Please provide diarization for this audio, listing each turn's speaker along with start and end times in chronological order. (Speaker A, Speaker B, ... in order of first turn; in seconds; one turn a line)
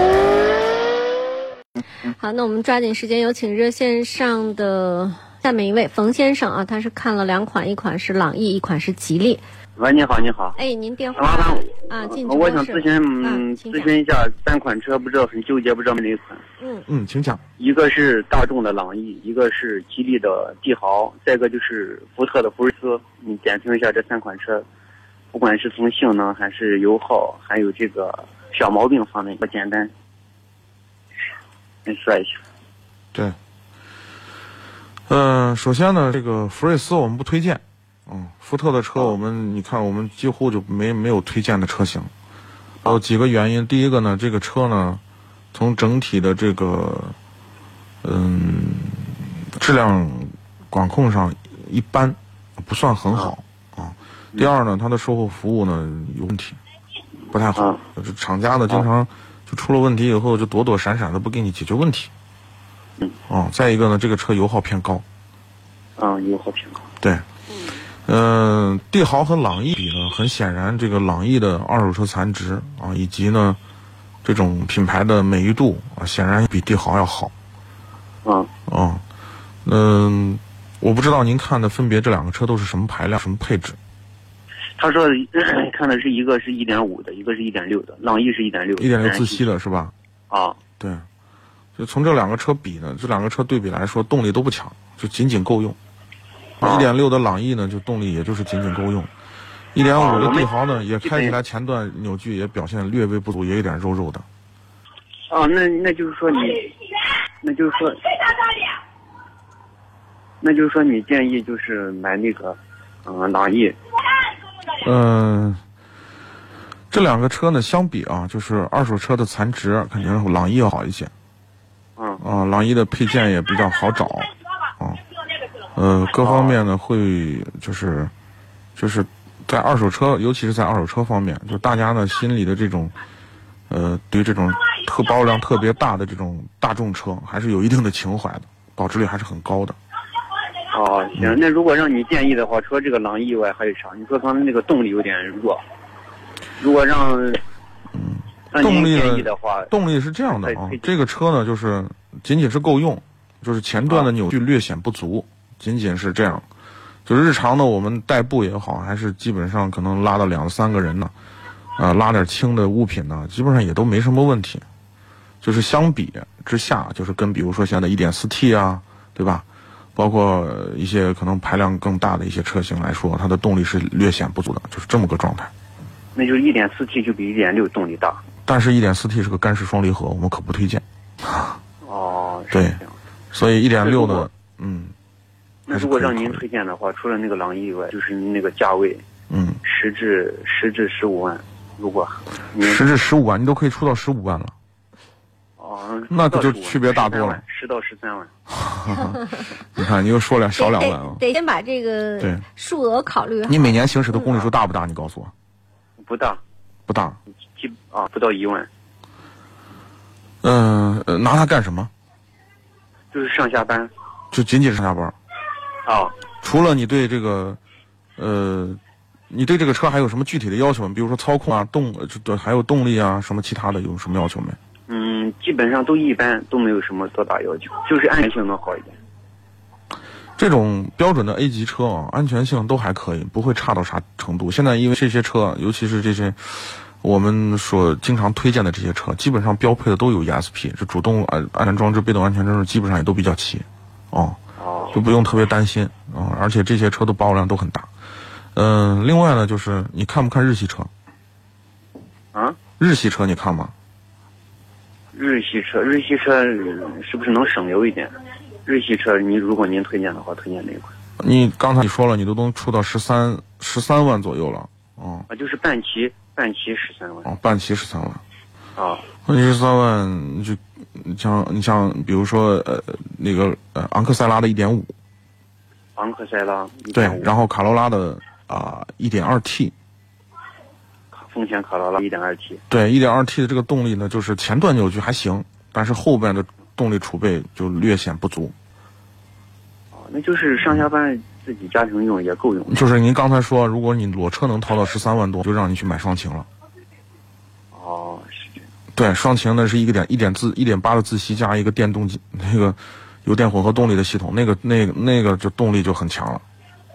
Speaker A: 2.2-9.4
Speaker B: 9.8-10.6
Speaker A: 10.6-13.9
Speaker B: 11.1-16.4
Speaker A: 16.6-16.9
Speaker C: 16.9-17.4
Speaker B: 17.6-24.6
Speaker B: 25.3-29.9
Speaker B: 31.9-32.4
Speaker C: 35.1-42.1
Speaker C: 42.8-45.0
Speaker C: 45.5-47.1
Speaker C: 48.0-56.6
Speaker C: 57.3-62.1
Speaker C: 63.3-65.0
Speaker B: 66.0-66.9
Speaker C: 68.1-73.6
Speaker C: 74.2-77.3
Speaker B: 78.2-78.5
Speaker C: 78.7-79.0
Speaker C: 79.6-83.8
Speaker B: 84.8-89.5
Speaker C: 88.8-89.9
Speaker B: 90.3-90.6
Speaker C: 91.8-95.8
Speaker C: 96.6-99.1
Speaker B: 96.6-96.9
Speaker C: 99.7-104.2
Speaker B: 99.9-101.4
Speaker B: 105.3-106.7
Speaker B: 107.4-108.1
Speaker B: 110.4-113.8
Speaker C: 114.8-115.6
Speaker C: 116.9-121.1
Speaker B: 122.0-122.2
Speaker C: 122.2-125.0
Speaker C: 125.7-128.1
Speaker B: 126.2-126.6
Speaker C: 128.8-132.9
Speaker C: 133.7-139.8
Speaker B: 140.7-145.6
Speaker B: 146.6-147.4
Speaker C: 147.9-156.5
Speaker B: 148.5-149.7
Speaker B: 150.3-150.9
Speaker C: 157.1-161.1
Speaker C: 161.8-164.6
Speaker C: 165.4-169.4
Speaker C: 170.0-175.5
Speaker B: 176.2-178.2
Speaker C: 178.5-181.6
Speaker B: 181.8-182.9
Speaker C: 182.5-182.8
Speaker C: 183.3-184.9
Speaker B: 183.8-184.3
Speaker B: 185.7-189.0
Speaker C: 185.7-186.4
Speaker C: 189.3-189.6
Speaker B: 189.6-192.9
Speaker C: 192.6-194.5
Speaker B: 195.6-198.3
Speaker C: 196.1-197.4
Speaker C: 198.5-201.2
Speaker A: 200.6-203.8
Speaker C: 202.2-202.4
Speaker C: 203.5-205.3
Speaker B: 206.0-206.4
Speaker C: 206.9-207.2
Speaker B: 207.6-208.7
Speaker C: 210.4-211.9
Speaker B: 213.1-213.9
Speaker C: 214.3-215.2
Speaker B: 215.8-216.2
Speaker C: 216.4-217.6
Speaker C: 218.2-218.8
Speaker C: 219.3-224.6
Speaker B: 224.9-229.0
Speaker C: 230.4-244.4
Speaker B: 244.6-245.0
Speaker C: 244.9-247.9
Speaker C: 248.6-250.9
Speaker B: 252.3-252.6
Speaker C: 252.8-253.7
Speaker B: 255.1-260.9
Speaker C: 261.2-265.3
Speaker B: 265.3-267.3
Speaker C: 267.2-268.2
Speaker B: 268.8-269.1
Speaker C: 269.2-274.9
Speaker B: 275.9-277.3
Speaker C: 276.9-279.7
Speaker B: 281.1-282.6
Speaker C: 282.7-288.5
Speaker B: 289.9-292.9
Speaker C: 292.7-296.5
Speaker B: 297.7-298.6
Speaker C: 298.9-306.4